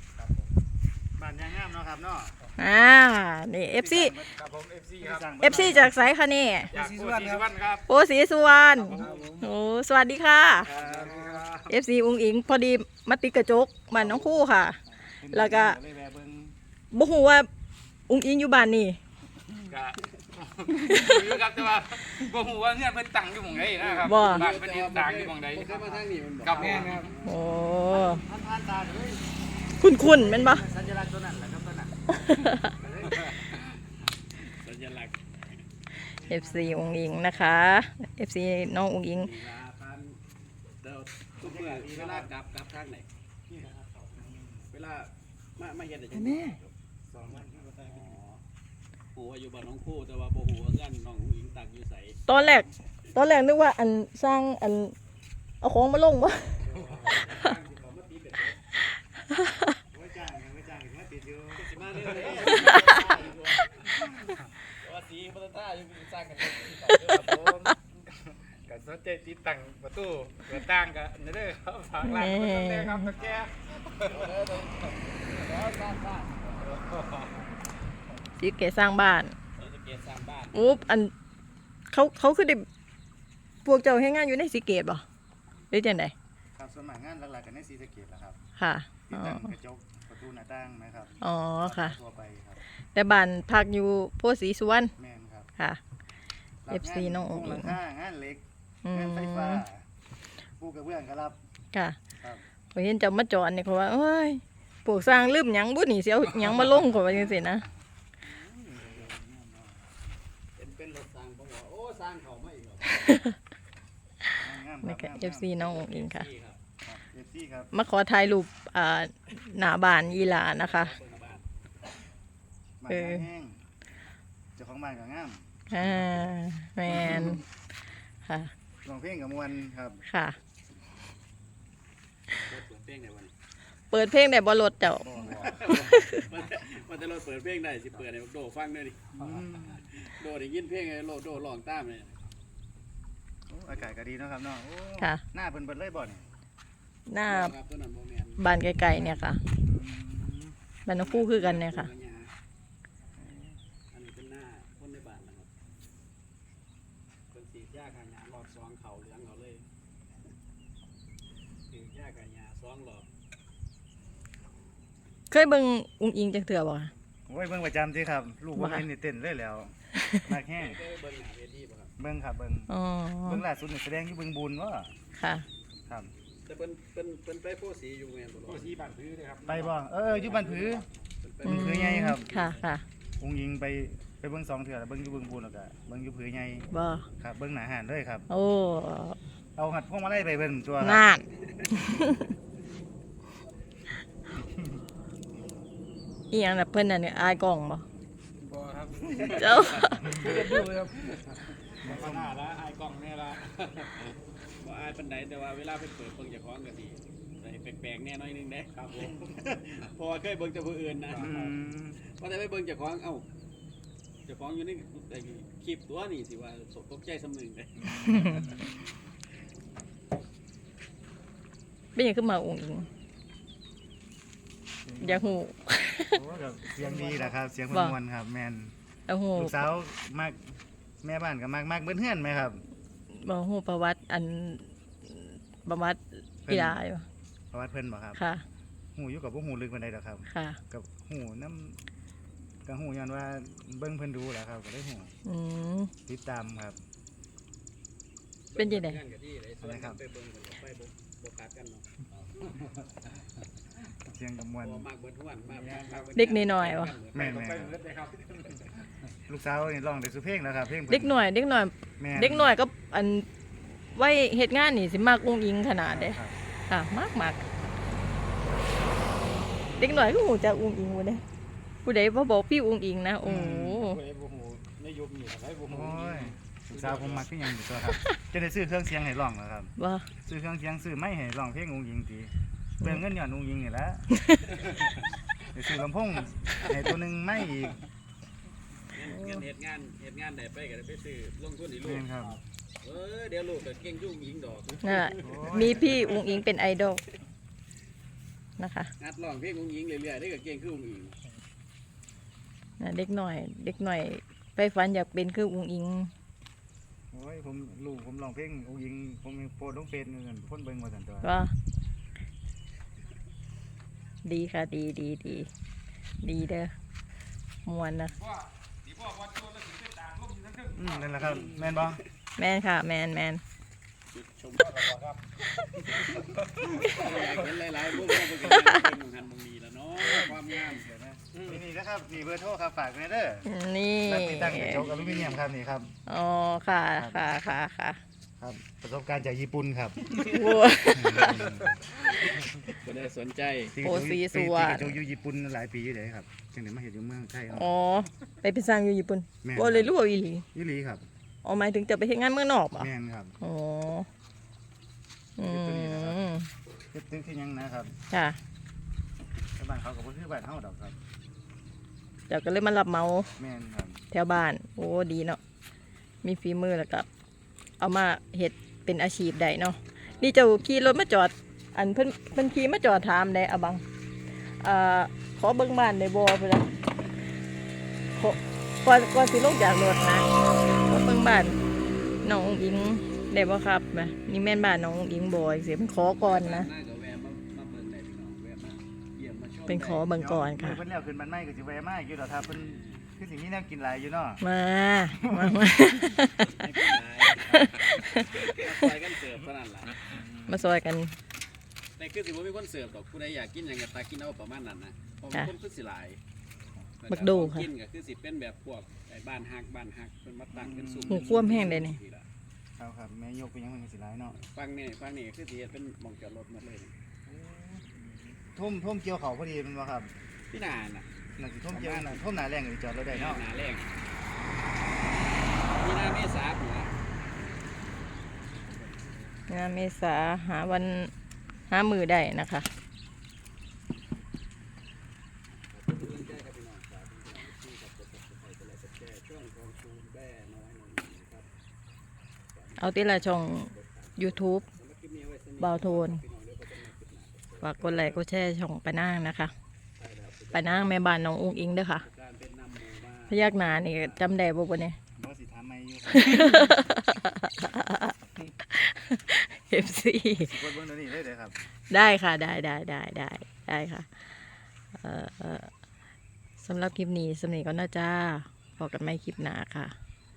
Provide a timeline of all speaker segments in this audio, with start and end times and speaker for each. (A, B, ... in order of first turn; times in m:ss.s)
0:00.2-0:00.5 A
0:01.2-0:02.3 B
0:02.6-0:04.2 C
0:03.8-0:04.4 B
0:04.3-0:05.6 A
0:05.0-0:06.0 B
0:05.4-0:06.7 C
0:06.7-0:07.8 A
0:06.7-0:07.4 B
0:07.9-0:10.7 C
0:08.8-0:09.5 A
0:08.9-0:09.3 B
0:10.6-0:11.4 B
0:10.6-0:11.7 A
0:10.8-0:11.3 D
0:11.7-0:14.8 C
0:13.9-0:16.5 B
0:15.3-0:15.8 C
0:16.9-0:17.5 C
0:18.1-0:19.0 C
0:19.7-0:25.7 A
0:20.9-0:21.3 C
0:23.8-0:27.5 D
0:24.0-0:24.5 C
0:25.7-0:27.0 B
0:26.4-0:27.1 A
0:27.2-0:28.2 C
0:27.9-0:33.4 B
0:29.8-0:30.6 C
0:32.4-0:32.7 C
0:33.0-0:33.7 D
0:34.3-0:35.2 D
0:36.1-0:39.3 C
0:36.2-0:37.2 B
0:39.1-0:40.2 D
0:40.8-0:43.1 D
0:41.4-0:42.3 B
0:43.5-0:44.7 B
0:44.7-0:46.7 D
0:46.1-0:46.6 C
0:47.1-0:48.1 B
0:47.2-0:47.8 A
0:47.8-0:48.4 D
0:49.1-0:52.7 D
0:52.3-0:55.0 C
0:55.6-0:56.5 C
0:56.6-0:58.6 D
0:59.3-0:59.6 C
0:59.9-1:03.4 B
1:01.6-1:04.0 D
1:04.0-1:04.4 B
1:04.8-1:07.5 D
1:07.1-1:07.7 A
1:08.5-1:14.2 A
1:12.0-1:13.1 C
1:14.0-1:16.8 D
1:16.6-1:17.3 A
1:18.4-1:19.4 C
1:19.6-1:20.8 D
1:20.5-1:21.1 C
1:21.9-1:22.6 C
1:23.6-1:25.0 C
1:25.7-1:26.1 C
1:26.6-1:28.4 B
1:28.6-1:29.5 C
1:29.1-1:32.6 B
1:31.2-1:31.9 C
1:32.9-1:34.9 C
1:35.0-1:35.5 B
1:36.6-1:39.8 B
1:36.7-1:37.8 C
1:38.8-1:39.6 C
1:40.6-1:41.4 B
1:41.7-1:42.0 C
1:42.7-1:47.6 C
1:48.2-1:49.7 B
1:48.8-1:49.2 D
1:50.6-1:53.1 D
1:53.0-1:53.4 C
1:54.4-1:55.6 B
1:54.8-1:56.3 C
1:55.6-1:56.6 D
1:56.8-1:57.7 B
1:57.7-2:00.9 C
2:00.1-2:01.4 D
2:02.8-2:03.6 B
2:02.9-2:03.2 C
2:04.6-2:06.3 B
2:05.7-2:07.4 C
2:06.9-2:07.4 B
2:08.2-2:08.5 C
2:08.8-2:10.0 B
2:10.0-2:10.4 C
2:12.4-2:13.3 D
2:13.9-2:16.2 C
2:15.0-2:15.8 B
2:15.4-2:22.3 D
2:19.1-2:19.8 B
2:23.5-2:26.2 B
2:23.7-2:24.0 D
2:27.1-2:27.5 C
2:27.2-2:29.2 D
2:28.4-2:29.4 C
2:29.6-2:30.5 B
2:30.8-2:31.9 C
2:30.9-2:32.3 D
2:33.9-2:35.5 D
2:37.3-2:39.6 D
2:41.7-2:43.0 D
2:45.3-2:46.9 C
2:47.3-2:50.8 B
2:48.6-2:48.8 C
2:49.9-2:50.2 C
2:50.5-2:51.9 D
2:52.0-2:52.7 B
2:52.7-2:53.4 C
2:53.2-2:54.9 B
2:55.2-2:55.4 C
2:56.4-2:58.7 D
2:58.4-3:00.8 A
2:59.4-3:00.8 B
3:01.2-3:01.7 D
3:01.4-3:02.8 C
3:01.4-3:02.3 B
3:02.3-3:02.6 D
3:03.2-3:06.7 B
3:06.7-3:07.0 C
3:07.2-3:08.2 B
3:08.3-3:09.2 C
3:09.6-3:11.1 B
3:10.8-3:12.3 C
3:14.4-3:14.6 B
3:16.3-3:17.8 C
3:18.4-3:24.1 A
3:19.1-3:20.7 D
3:19.2-3:20.2 C
3:21.8-3:22.4 B
3:24.6-3:31.3 D
3:28.8-3:29.1 A
3:31.1-3:31.5 A
3:31.2-3:32.0 B
3:32.1-3:33.2 D
3:34.2-3:37.9 D
3:37.8-3:38.9 B
3:38.0-3:38.4 C
3:41.9-3:42.9 C
3:44.8-3:45.4 B
3:45.0-3:46.2 C
3:46.1-3:48.7 B
3:47.7-3:48.0 C
3:49.1-3:49.6 C
3:49.4-3:52.6 B
3:53.1-3:57.0 C
3:56.4-3:56.8 B
3:57.5-3:58.2 B
3:58.2-3:58.4 C
3:58.9-4:01.8 B
4:00.3-4:00.6 C
4:02.6-4:05.1 B
4:05.2-4:05.9 C
4:06.1-4:06.8 B
4:08.5-4:11.8 D
4:08.6-4:09.0 C
4:09.6-4:10.0 B
4:14.0-4:14.8 B
4:14.6-4:17.6 D
4:15.5-4:16.1 A
4:16.1-4:17.0 C
4:17.1-4:17.8 B
4:17.1-4:18.8 A
4:19.3-4:21.2 B
4:20.9-4:23.3 C
4:22.0-4:22.5 B
4:23.9-4:27.4 C
4:25.9-4:26.4 B
4:29.8-4:31.2 C
4:31.8-4:34.0 C
4:33.2-4:33.9 B
4:33.8-4:37.2 A
4:35.7-4:39.7 B
4:39.8-4:40.1 C
4:40.2-4:44.1 B
4:44.1-4:44.4 C
4:45.5-4:47.8 B
4:48.9-4:52.0 D
4:51.8-4:52.4 B
4:52.8-4:56.4 D
4:54.8-4:57.0 C
4:55.2-4:56.1 B
4:58.6-4:58.9 C
4:59.0-5:01.2 D
5:02.8-5:06.1 C
5:07.1-5:11.4 B
5:11.2-5:11.5 C
5:14.2-5:15.5 C
5:16.2-5:16.7 C
5:17.6-5:18.2 C
5:18.2-5:21.7 A
5:20.7-5:22.0 B
5:21.4-5:22.0 D
5:22.4-5:23.4 C
5:24.1-5:25.1 D
5:24.7-5:25.1 A
5:25.8-5:30.9 D
5:28.5-5:28.7 C
5:30.1-5:33.5 B
5:33.4-5:34.9 C
5:34.0-5:35.9 B
5:34.8-5:35.4 D
5:36.1-5:38.0 C
5:37.0-5:37.3 B
5:38.4-5:41.8 B
5:40.2-5:41.5 C
5:42.0-5:43.8 D
5:43.7-5:47.7 B
5:43.8-5:45.0 C
5:47.5-5:50.4 C
5:49.4-5:50.0 B
5:50.5-5:51.0 B
5:51.4-5:54.1 C
5:52.7-5:53.4 B
5:55.4-5:56.5 C
5:55.4-5:56.2 B
5:56.9-5:57.9 B
5:58.1-5:58.4 C
5:59.6-6:01.0 B
6:02.3-6:03.3 C
6:03.4-6:04.0 B
6:04.1-6:05.4 C
6:06.2-6:07.1 C
6:07.8-6:13.8 C
6:14.6-6:16.7 C
6:18.2-6:20.3 C
6:20.8-6:21.6 C
6:22.2-6:26.7 C
6:26.2-6:30.1 D
6:29.7-6:30.8 C
6:30.1-6:34.4 B
6:32.5-6:33.1 D
6:34.4-6:36.5 C
6:35.2-6:35.7 B
6:36.4-6:37.6 D
6:37.4-6:38.4 C
6:38.2-6:40.1 D
6:40.0-6:40.8 B
6:40.5-6:41.1 C
6:42.0-6:46.2 D
6:47.0-6:52.2 D
6:47.1-6:47.7 C
6:50.5-6:51.8 B
6:51.1-6:52.0 C
6:52.8-6:54.4 B
6:54.3-6:56.9 D
6:57.2-7:00.1 B
7:00.5-7:01.1 D
7:01.4-7:03.4 B
7:01.7-7:02.2 D
7:03.0-7:03.9 D
7:05.7-7:07.0 D
7:08.7-7:09.3 D
7:09.5-7:11.1 C
7:11.7-7:12.7 C
7:15.6-7:21.5 D
7:22.5-7:28.2 D
7:22.8-7:24.6 C
7:25.6-7:26.2 C
7:27.6-7:29.5 C
7:30.0-7:31.1 D
7:30.5-7:32.0 C
7:32.0-7:34.3 D
7:33.3-7:35.0 C
7:35.2-7:36.8 B
7:36.1-7:38.1 C
7:38.6-7:40.6 C
7:40.4-7:41.6 B
7:41.9-7:44.1 C
7:45.0-7:45.7 C
7:46.6-7:49.9 C